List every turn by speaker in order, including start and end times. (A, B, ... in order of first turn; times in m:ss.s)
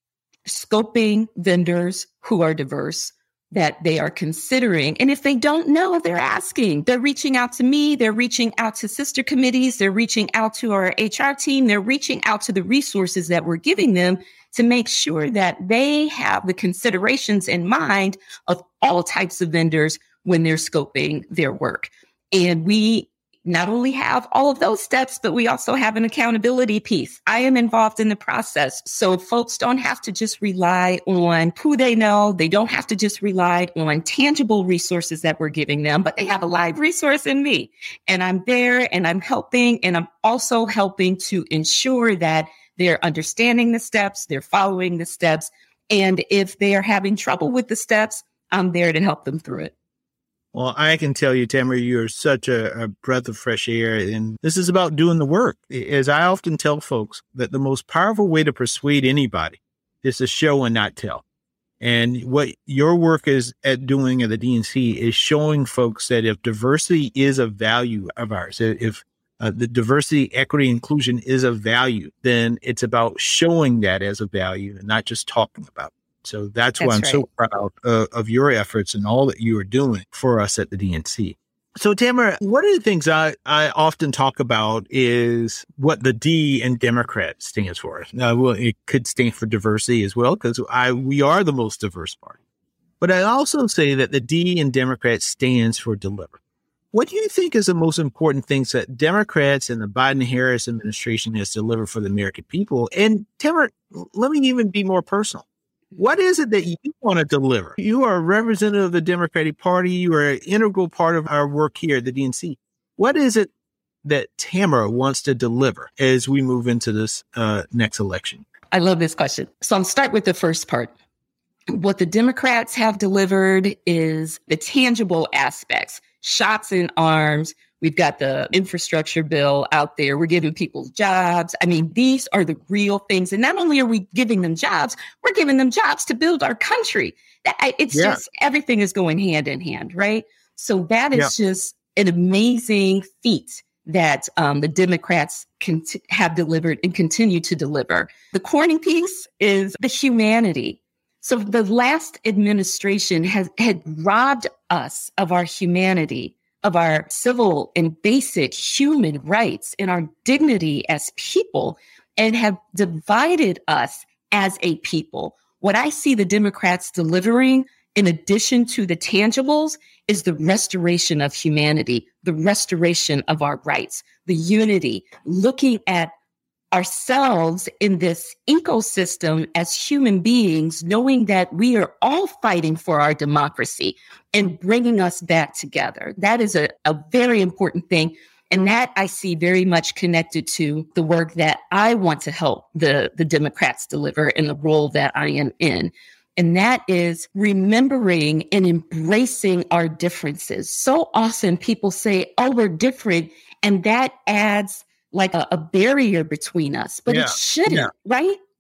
0:00.5-0:49.7 A
0:50.5-1:01.2 B
1:01.8-1:32.4 B
1:16.8-1:17.2 A
1:33.0-1:36.4 B
1:36.9-1:45.4 B
1:46.0-1:53.5 B
1:54.0-1:58.4 B
1:58.7-2:00.9 A
2:01.7-2:56.1 A
2:17.9-2:18.2 B
2:56.7-3:28.4 A
3:27.1-3:27.9 B